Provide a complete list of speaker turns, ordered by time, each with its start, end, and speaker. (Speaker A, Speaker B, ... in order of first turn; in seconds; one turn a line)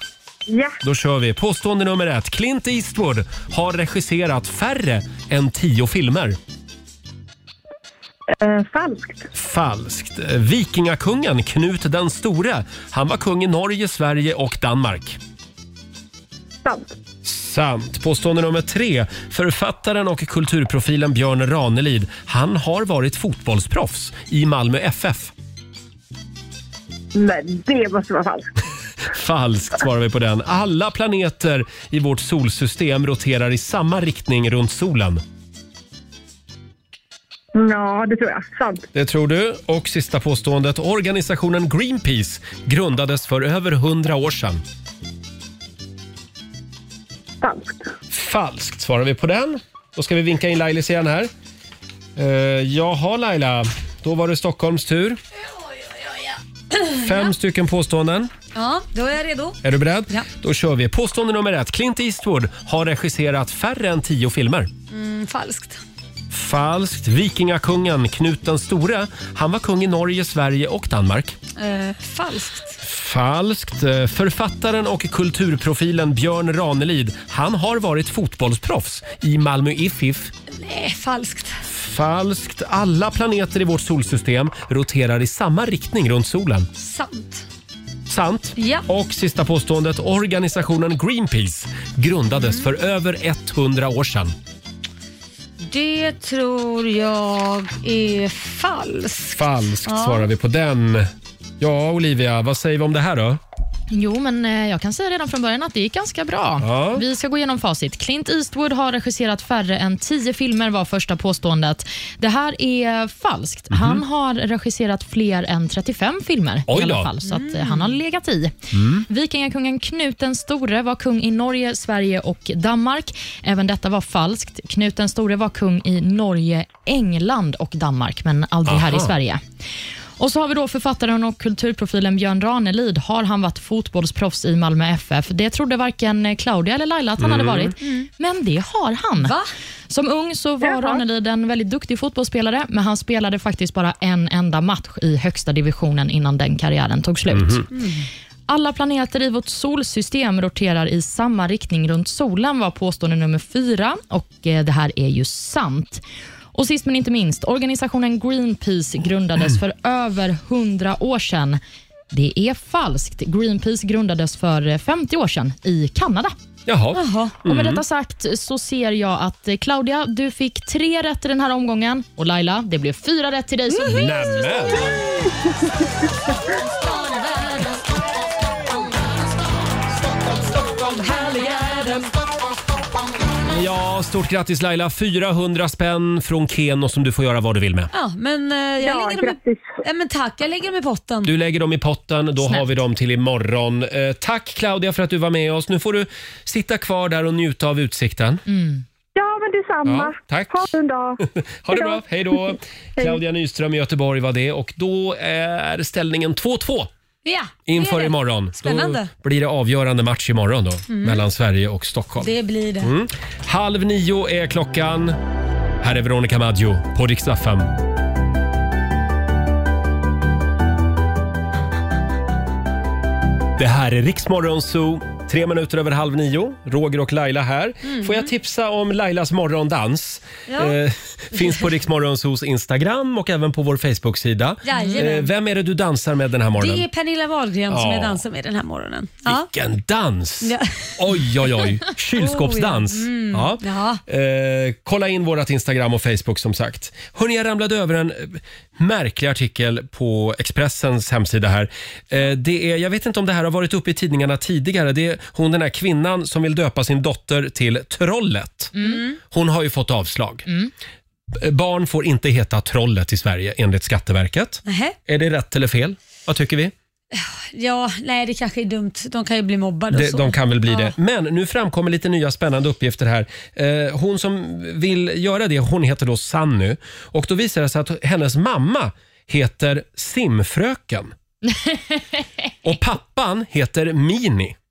Speaker A: 0.8-6.4
Speaker B: 8.4-9.2
Speaker A: 9.3-15.2
Speaker A: 17.2-25.3
Speaker B: 27.2-28.4
Speaker A: 29.1-35.2
Speaker B: 37.6-38.8
Speaker A: 38.9-44.6
Speaker B: 47.4-47.7
Speaker A: 48.1-51.3
Speaker A: 52.1-55.2
Speaker A: 56.9-58.3
Speaker C: 58.5-59.6
Speaker A: 59.6-64.7
Speaker C: 64.9-65.8
Speaker A: 66.3-71.4
Speaker C: 71.6-72.8
Speaker A: 72.8-80.3
Speaker C: 80.5-81.6
Speaker A: 81.7-86.7
Speaker C: 86.8-87.5
Speaker A: 88.1-94.3
Speaker C: 88.6-88.8
Speaker C: 92.4-92.7
Speaker C: 95.6-100.3
Speaker A: 99.3-101.1
Speaker A: 101.6-103.4
Speaker D: 103.9-129.4
Speaker A: 106.6-107.0
Speaker A: 113.7-114.0
Speaker A: 116.7-117.1
Speaker C: 117.2-118.0
Speaker A: 118.7-119.0
Speaker A: 128.7-129.1
Speaker D: 130.2-139.4
Speaker A: 137.2-137.7
Speaker C: 137.8-138.1
Speaker C: 139.2-139.5
Speaker D: 139.9-147.7
Speaker A: 147.3-147.7
Speaker C: 147.7-148.1
Speaker D: 148.5-156.0
Speaker D: 156.5-166.3
Speaker A: 166.7-167.8
Speaker C: 166.9-167.3
Speaker D: 167.4-174.2
Speaker C: 173.8-174.1
Speaker A: 173.8-174.9
Speaker C: 176.9-177.7
Speaker C: 181.1-182.0
Speaker A: 183.4-187.9
Speaker C: 187.9-191.3
Speaker B: 189.0-189.6
Speaker A: 191.2-198.4
Speaker D: 192.4-192.7
Speaker D: 198.5-198.8
Speaker B: 199.2-199.9
Speaker A: 199.8-200.7
Speaker B: 200.6-201.2
Speaker A: 201.2-206.9
Speaker C: 207.2-209.1
Speaker A: 207.7-215.2
Speaker C: 210.9-211.2
Speaker C: 212.2-212.9
Speaker A: 215.8-217.7
Speaker A: 223.6-236.9
Speaker C: 227.8-228.3
Speaker C: 230.5-230.8
Speaker C: 234.6-235.3
Speaker C: 236.6-239.5
Speaker A: 237.7-238.2
Speaker A: 239.2-258.7
Speaker C: 240.4-241.0
Speaker C: 242.1-244.0
Speaker D: 258.7-259.0
Speaker C: 258.8-259.2
Speaker A: 259.2-260.4
Speaker D: 260.4-260.7
Speaker A: 261.3-266.7
Speaker C: 264.6-264.9
Speaker C: 267.1-270.9
Speaker A: 269.9-281.1
Speaker D: 281.5-282.2
Speaker A: 282.6-284.6